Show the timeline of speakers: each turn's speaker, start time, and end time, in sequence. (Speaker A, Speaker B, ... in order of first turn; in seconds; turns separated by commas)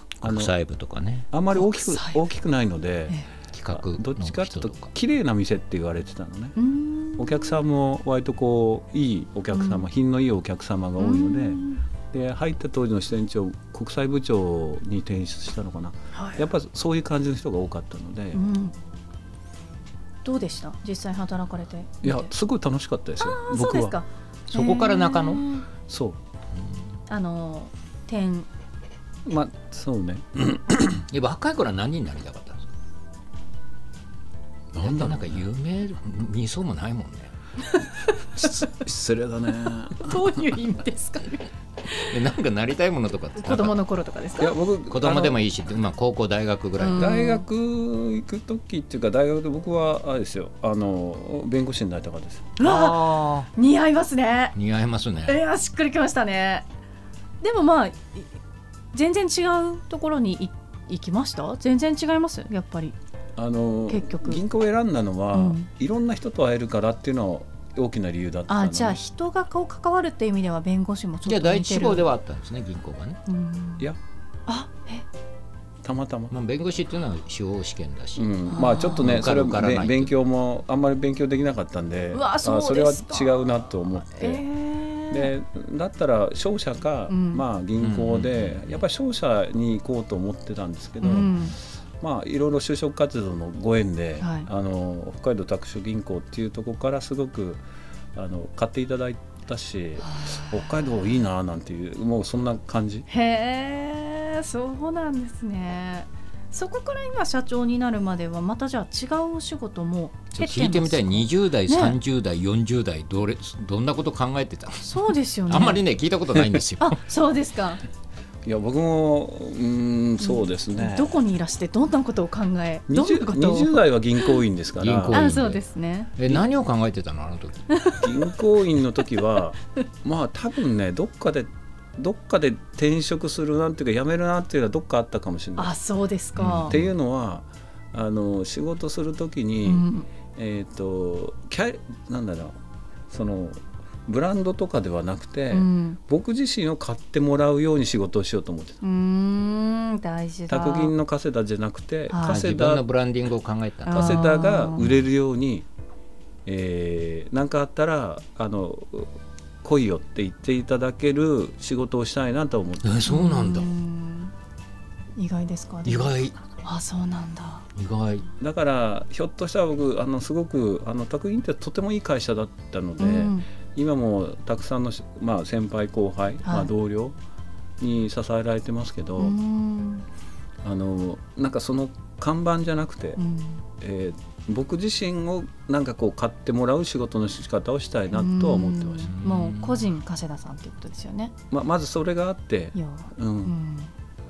Speaker A: 0.2-1.3, Speaker B: 0.2-0.5, Speaker B: 1.3-3.2, Speaker C: 1.5-2.2, Speaker A: 3.5-4.9, Speaker B: 3.7-6.6, Speaker C: 6.6-7.6, Speaker B: 7.2-18.4, Speaker C: 9.5-9.9, Speaker C: 11.0-11.8, Speaker C: 16.1-16.5, Speaker C: 18.3-18.7, Speaker C: 20.2-22.3, Speaker B: 22.0-23.9, Speaker C: 23.2-25.6, Speaker A: 24.5-25.4, Speaker B: 25.9-26.2, Speaker C: 27.1-28.5, Speaker B: 29.2-31.0, Speaker A: 31.1-32.7, Speaker B: 34.7-35.4, Speaker A: 34.8-37.3, Speaker B: 38.4-40.2, Speaker C: 40.0-42.1, Speaker A: 42.0-43.8, Speaker C: 43.4-44.5, Speaker B: 44.4-45.4, Speaker A: 44.9-47.2, Speaker C: 46.8-47.4, Speaker B: 46.9-52.5, Speaker C: 52.6-54.5, Speaker A: 52.6-53.5, Speaker A: 54.5-55.4, Speaker C: 55.3-56.6, Speaker C: 57.4-58.3, Speaker C: 58.9-62.9, Speaker B: 63.4-69.0, Speaker C: 63.9-64.4, Speaker C: 65.3-65.7, Speaker C: 68.5-72.1, Speaker A: 71.2-73.2, Speaker C: 73.3-73.9, Speaker C: 74.5-75.0, Speaker B: 75.8-76.3, Speaker A: 76.3-80.1, Speaker B: 78.2-84.4, Speaker C: 78.5-79.0, Speaker C: 82.1-83.5, Speaker C: 84.1-85.3, Speaker B: 85.1-91.3, Speaker C: 87.1-87.4, Speaker A: 87.8-88.8, Speaker C: 91.0-91.5, Speaker B: 92.0-97.6, Speaker C: 94.2-94.5, Speaker B: 98.1-103.1, Speaker C: 100.0-100.5, Speaker C: 103.1-112.0, Speaker A: 110.4-117.0, Speaker C: 114.8-115.8, Speaker C: 116.8-117.8, Speaker B: 118.4-121.1, Speaker C: 120.2-124.3, Speaker B: 122.9-125.3, Speaker A: 124.8-125.6, Speaker C: 125.1-126.1, Speaker A: 126.2-127.7, Speaker C: 127.7-128.1, Speaker B: 128.0-135.7, Speaker C: 135.6-136.7, Speaker A: 136.4-136.9, Speaker B: 136.7-142.6, Speaker C: 139.6-140.1, Speaker B: 143.1-148.8, Speaker C: 145.5-146.0, Speaker C: 148.8-150.9, Speaker B: 150.5-152.8, Speaker C: 152.1-152.4, Speaker A: 152.2-154.2, Speaker C: 153.9-154.8, Speaker B: 153.9-155.7, Speaker B: 156.4-163.0, Speaker A: 162.8-163.7, Speaker C: 163.1-164.3, Speaker C: 165.2-167.7, Speaker A: 165.9-166.4, Speaker A: 167.8-168.3, Speaker B: 168.4-177.2, Speaker C: 173.0-173.4, Speaker C: 176.4-176.7, Speaker B: 177.8-179.4, Speaker C: 179.2-180.1, Speaker B: 180.6-183.2, Speaker C: 183.2-183.6, Speaker B: 183.8-189.1, Speaker C: 188.1-191.3, Speaker A: 189.1-189.9, Speaker B: 191.5-193.6, Speaker C: 192.7-193.9